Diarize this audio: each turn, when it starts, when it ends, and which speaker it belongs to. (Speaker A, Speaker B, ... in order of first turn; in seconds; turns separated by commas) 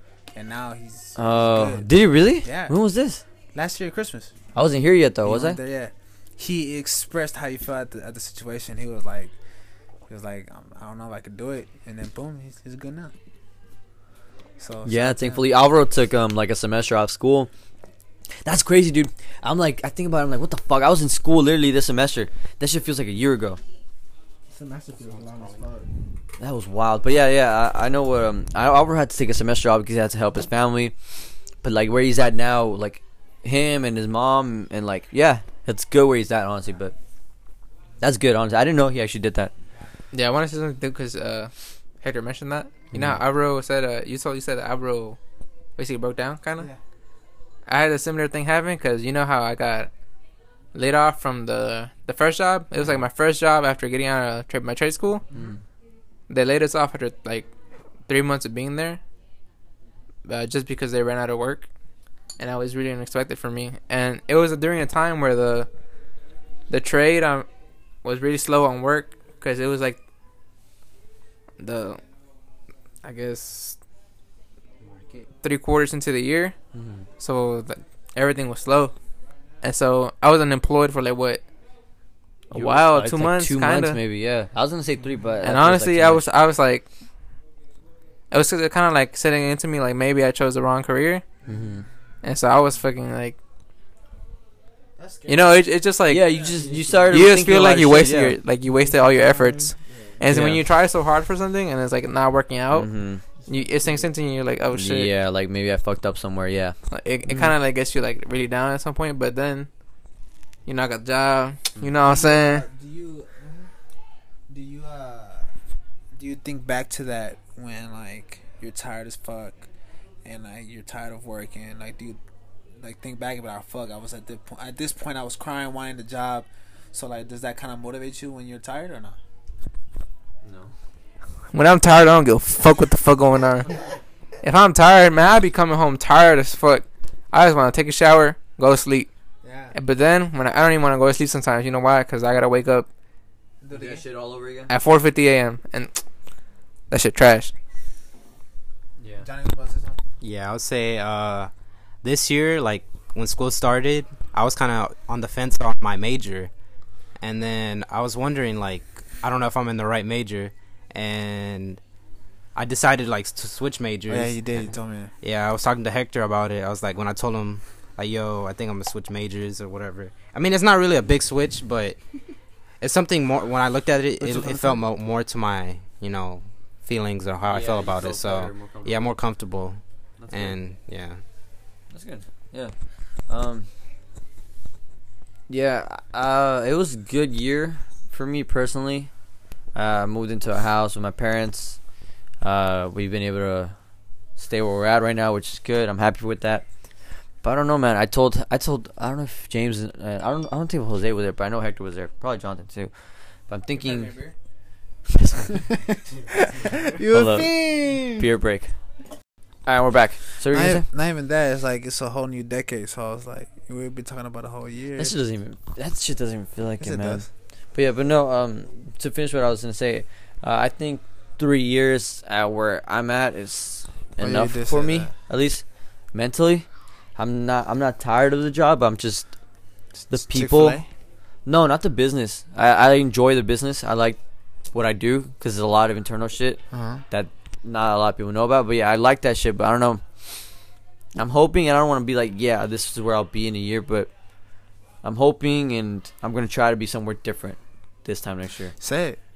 Speaker A: 0.3-1.9, Speaker B: 1.2-3.2, Speaker A: 2.4-2.7, Speaker A: 3.5-4.3, Speaker B: 4.5-5.6, Speaker A: 5.2-9.3, Speaker A: 10.1-13.1, Speaker A: 14.6-15.5, Speaker B: 14.8-17.5, Speaker B: 18.4-23.6, Speaker C: 24.5-25.9, Speaker D: 25.1-25.6, Speaker B: 26.4-30.9, Speaker B: 31.6-36.9, Speaker B: 38.0-39.5, Speaker E: 40.1-45.2, Speaker B: 42.9-43.2, Speaker E: 45.8-46.7, Speaker E: 47.7-49.9, Speaker E: 50.7-55.2, Speaker B: 55.3-55.6, Speaker E: 56.3-57.5, Speaker E: 58.1-59.0, Speaker E: 60.2-61.7, Speaker E: 62.4-65.7, Speaker E: 66.7-67.5, Speaker E: 68.0-70.0, Speaker E: 71.6-72.0, Speaker E: 73.0-73.8, Speaker D: 74.8-75.3, Speaker E: 75.4-76.5, Speaker B: 76.7-77.1, Speaker E: 77.2-78.9, Speaker E: 79.6-81.4, Speaker B: 82.5-86.2, Speaker E: 82.5-84.0, Speaker E: 85.4-86.8, Speaker E: 88.3-91.2, Speaker B: 91.5-91.8, Speaker E: 92.2-93.4, Speaker A: 95.0-95.4, Speaker E: 95.3-96.3, Speaker B: 96.1-98.4, Speaker A: 96.3-96.7, Speaker E: 97.1-102.9, Speaker C: 98.8-99.7, Speaker B: 100.3-100.6, Speaker B: 102.7-103.2, Speaker E: 103.5-105.1, Speaker B: 104.7-106.8, Speaker E: 106.9-109.7, Speaker E: 110.7-112.7, Speaker A: 112.1-113.6, Speaker A: 114.5-115.5, Speaker A: 116.2-119.7, Speaker A: 120.2-122.2, Speaker A: 122.8-129.2, Speaker B: 130.4-130.7, Speaker E: 131.5-133.7, Speaker E: 134.4-139.1, Speaker A: 139.4-139.8, Speaker E: 139.7-142.9, Speaker A: 143.6-144.0, Speaker B: 143.7-144.7, Speaker E: 144.7-146.0, Speaker E: 146.9-147.5, Speaker B: 149.0-149.3, Speaker A: 149.2-150.0, Speaker D: 150.2-151.5, Speaker D: 152.0-156.5, Speaker D: 157.2-161.8, Speaker D: 162.6-164.7, Speaker A: 164.1-165.1, Speaker D: 165.2-172.0, Speaker D: 172.8-181.2, Speaker A: 174.2-174.8, Speaker B: 177.5-179.1, Speaker B: 180.2-180.6, Speaker B: 181.9-183.7, Speaker B: 185.5-189.1, Speaker B: 189.7-191.8, Speaker B: 192.4-193.8, Speaker B: 194.4-196.7, Speaker B: 197.4-202.9, Speaker B: 203.5-204.1, Speaker E: 203.8-204.3, Speaker B: 205.2-205.5, Speaker A: 205.7-208.3, Speaker B: 207.1-208.7, Speaker B: 209.7-210.9, Speaker A: 210.4-215.1, Speaker B: 215.0-229.3, Speaker A: 216.8-217.3, Speaker A: 224.2-225.1, Speaker B: 230.1-230.8, Speaker A: 230.1-230.9, Speaker B: 231.4-234.2, Speaker B: 234.7-240.0, Speaker A: 236.7-237.0, Speaker B: 241.2-244.1, Speaker B: 245.0-248.8, Speaker A: 248.8-249.2